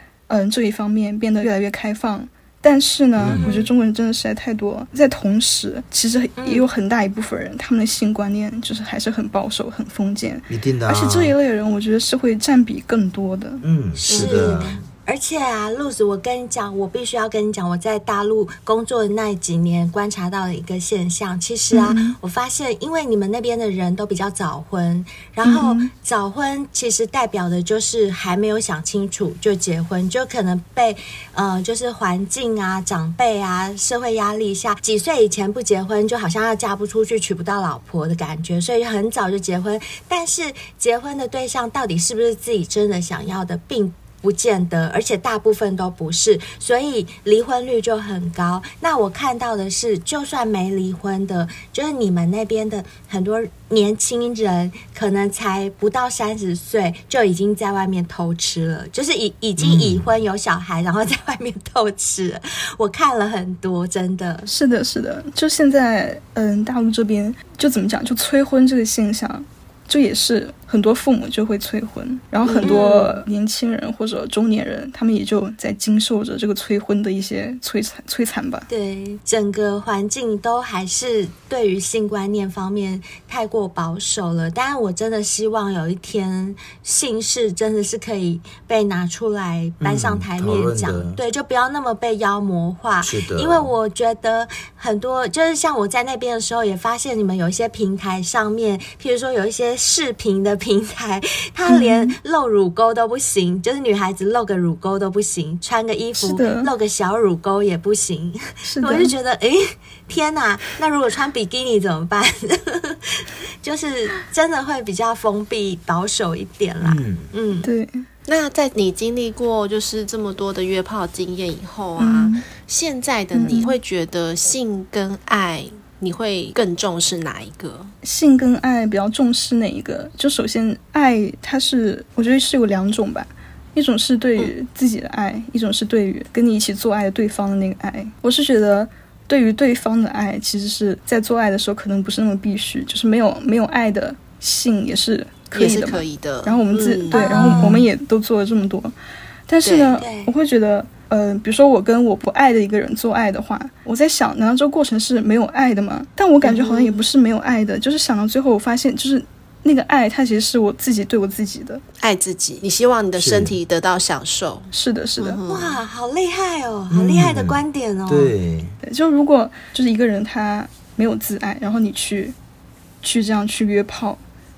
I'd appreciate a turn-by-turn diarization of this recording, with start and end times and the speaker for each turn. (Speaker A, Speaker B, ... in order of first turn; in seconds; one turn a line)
Speaker A: 0.3-13.6
Speaker B: 3.1-3.5
Speaker C: 3.3-3.7
Speaker C: 6.4-6.7
Speaker B: 10.5-11.3
Speaker B: 13.6-14.8
Speaker C: 13.9-64.5
Speaker D: 14.1-14.6
Speaker A: 21.7-22.2
Speaker A: 25.4-25.9
Speaker B: 59.6-60.1
Speaker A: 64.5-78.7
Speaker D: 72.4-73.0
Speaker C: 72.6-73.2
Speaker C: 78.7-117.7
Speaker B: 89.8-91.2
Speaker B: 93.0-93.7
Speaker A: 101.7-102.2
Speaker A: 106.2-106.7
Speaker A: 108.6-109.1
Speaker B: 116.8-117.3
Speaker A: 117.6-118.0
Speaker D: 118.3-127.9
Speaker A: 122.0-122.4
Speaker A: 123.3-123.8
Speaker A: 128.0-148.9
Speaker D: 145.5-147.8
Speaker C: 147.1-147.8
Speaker A: 149.5-161.8
Speaker D: 149.6-150.0
Speaker C: 150.0-150.3
Speaker D: 156.4-157.1
Speaker D: 162.0-165.8
Speaker B: 163.2-163.6
Speaker A: 164.7-165.4
Speaker C: 165.5-168.3
Speaker B: 166.9-168.8
Speaker A: 168.8-172.3
Speaker A: 173.0-174.2